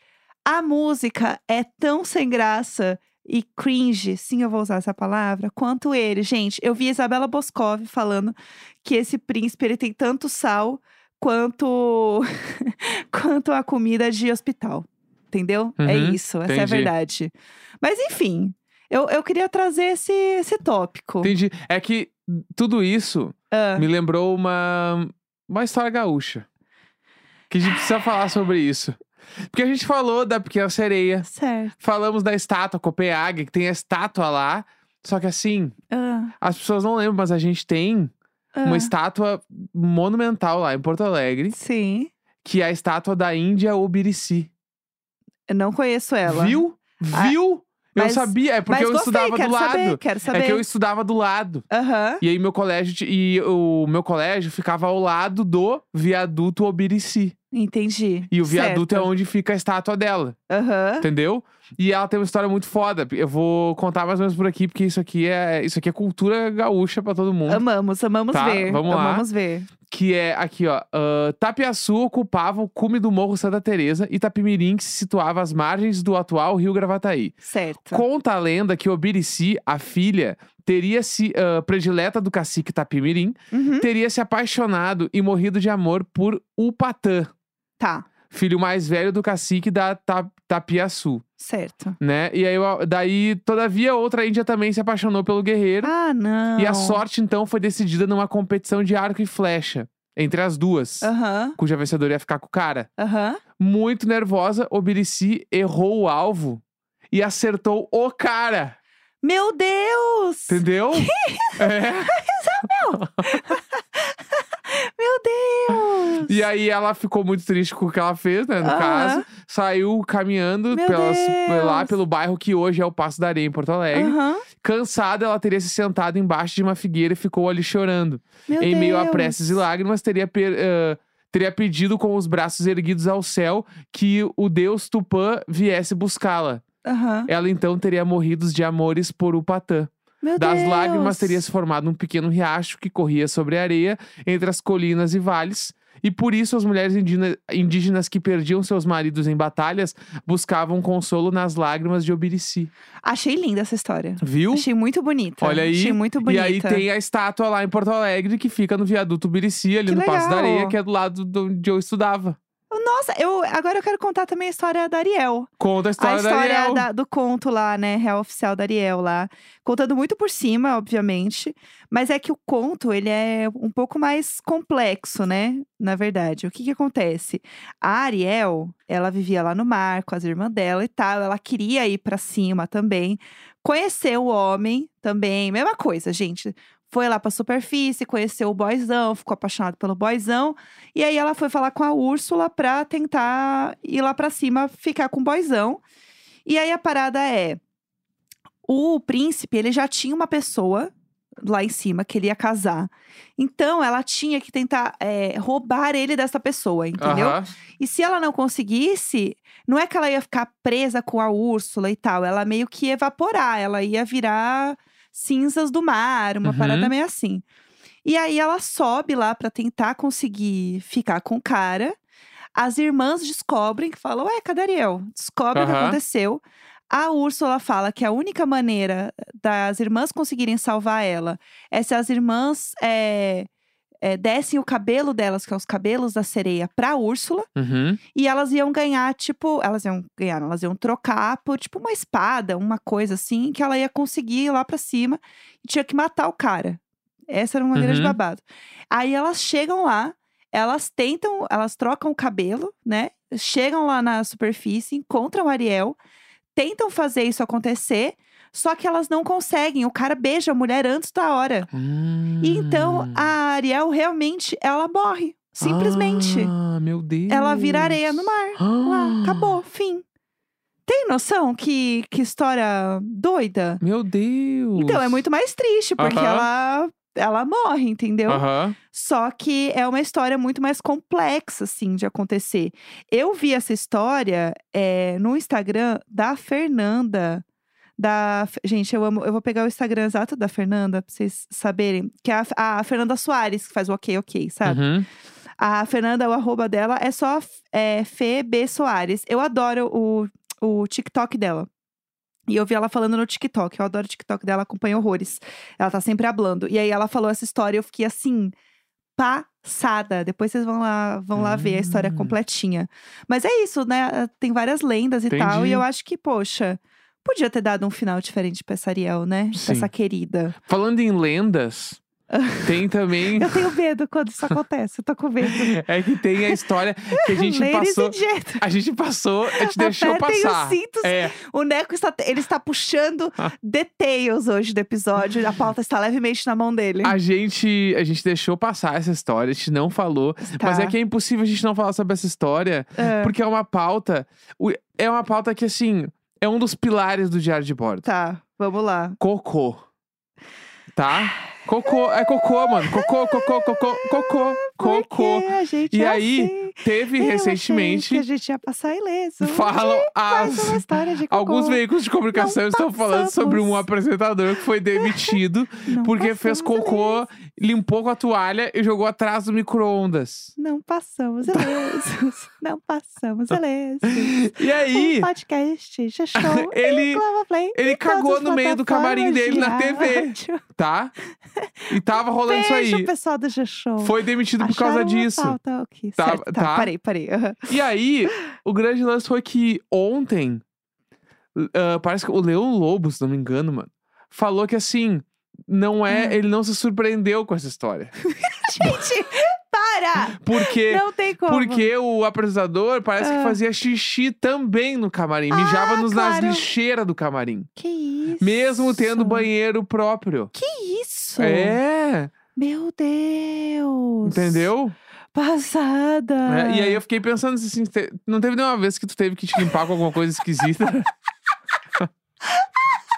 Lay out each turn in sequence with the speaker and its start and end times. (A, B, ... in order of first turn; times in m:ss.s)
0:00.5-0:21.3 A
0:15.8-0:16.9 B
0:21.2-0:26.5 B
0:23.5-0:23.9 A
0:27.5-0:29.0 B
0:29.5-0:31.3 B
0:31.2-0:31.7 A
0:31.8-0:35.8 B
0:35.9-0:36.3 A
0:36.4-0:38.1 B
0:38.6-0:38.9 A
0:38.6-0:41.6 B
0:41.5-0:42.1 A
0:42.4-0:44.5 B
0:45.5-0:46.6 A
0:46.3-0:51.7 B
0:48.0-0:50.6 A
0:51.7-0:52.2 A
0:52.2-0:57.4 B
0:57.5-0:59.1 A
0:58.3-1:00.4 B
1:00.5-1:01.1 A
1:01.0-1:07.6 B
1:07.5-1:09.7 A
1:08.3-1:09.3 B
1:09.9-1:17.4 B
1:17.4-1:18.1 A
1:17.9-1:27.3 B
1:23.5-1:23.9 A
1:27.8-1:28.1 A
1:28.3-1:31.2 B
1:31.4-1:32.0 A
1:32.0-1:35.9 B
1:35.8-1:37.0 A
1:36.6-1:42.9 B
1:41.0-1:41.6 A
1:43.0-1:43.4 A
1:43.6-1:48.8 B
1:49.2-1:56.4 A
1:50.5-1:52.2 B
1:52.9-1:53.5 B
1:56.2-2:16.6 B
1:58.6-1:59.3 A
2:00.7-2:02.0 A
2:03.9-2:04.4 A
2:08.5-2:09.6 A
2:16.8-2:17.3 A
2:17.3-2:32.7 B
2:20.2-2:21.4 A
2:33.0-2:36.8 A
2:34.2-2:34.7 B
2:35.4-2:42.4 B
2:39.9-2:40.8 A
2:42.7-3:15.8 A
2:45.6-2:46.9 B
3:16.4-3:17.6 A
3:18.7-3:20.9 A
3:21.4-3:37.4 A
3:27.0-3:27.5 B
3:36.4-3:36.9 B
3:38.0-3:42.0 A
3:42.6-3:53.5 A
3:45.5-3:46.0 B
3:54.0-3:57.5 A
3:57.6-3:58.0 B
3:58.1-4:16.0 A
4:07.8-4:08.2 B
4:16.6-4:21.7 A
4:21.7-4:23.3 B
4:22.4-4:26.5 A
4:25.6-4:29.6 B
4:27.3-4:30.0 A
4:30.9-4:33.8 A
4:33.8-4:35.2 B
4:34.8-4:47.4 A
4:36.0-4:36.5 B
4:38.3-4:38.8 B
4:48.0-4:54.8 A
4:54.6-4:55.1 B
4:55.6-5:01.7 A
5:02.5-5:08.6 A
5:09.2-5:20.6 A
5:11.4-5:12.4 B
5:15.3-5:15.8 B
5:19.5-5:19.9 B
5:20.7-5:22.0 B
5:22.3-5:25.8 A
5:22.6-5:23.7 B
5:25.5-5:31.4 B
5:27.2-5:28.6 A
5:29.5-5:37.2 A
5:37.0-5:48.1 B
5:40.4-5:41.0 A
5:43.0-5:43.3 A
5:48.0-5:49.2 A
5:49.2-5:49.8 B
5:51.0-5:58.2 B
5:51.1-6:01.8 A
5:59.4-6:10.5 B
6:02.3-6:03.8 A
6:05.0-6:07.2 A
6:10.6-6:20.6 A
6:11.5-6:11.7 B
6:14.1-6:15.3 B
6:16.4-6:17.2 B
6:17.8-6:21.1 B
6:21.9-6:23.1 B
6:22.5-6:27.7 A
6:24.0-6:25.6 B
6:26.2-6:26.9 B
6:27.7-6:30.6 B
6:31.6-6:38.1 B
6:36.1-6:36.4 A
6:38.3-6:41.9 A
6:38.8-6:39.1 B
6:40.4-6:47.7 B
6:43.2-6:43.6 A
6:45.5-6:46.7 A
6:47.8-6:49.5 A
6:48.4-6:50.5 B
6:50.5-6:51.8 A
6:51.4-6:52.3 B
6:52.6-6:54.7 A
6:54.2-6:55.0 B
6:55.3-6:57.0 A
6:56.5-7:01.1 B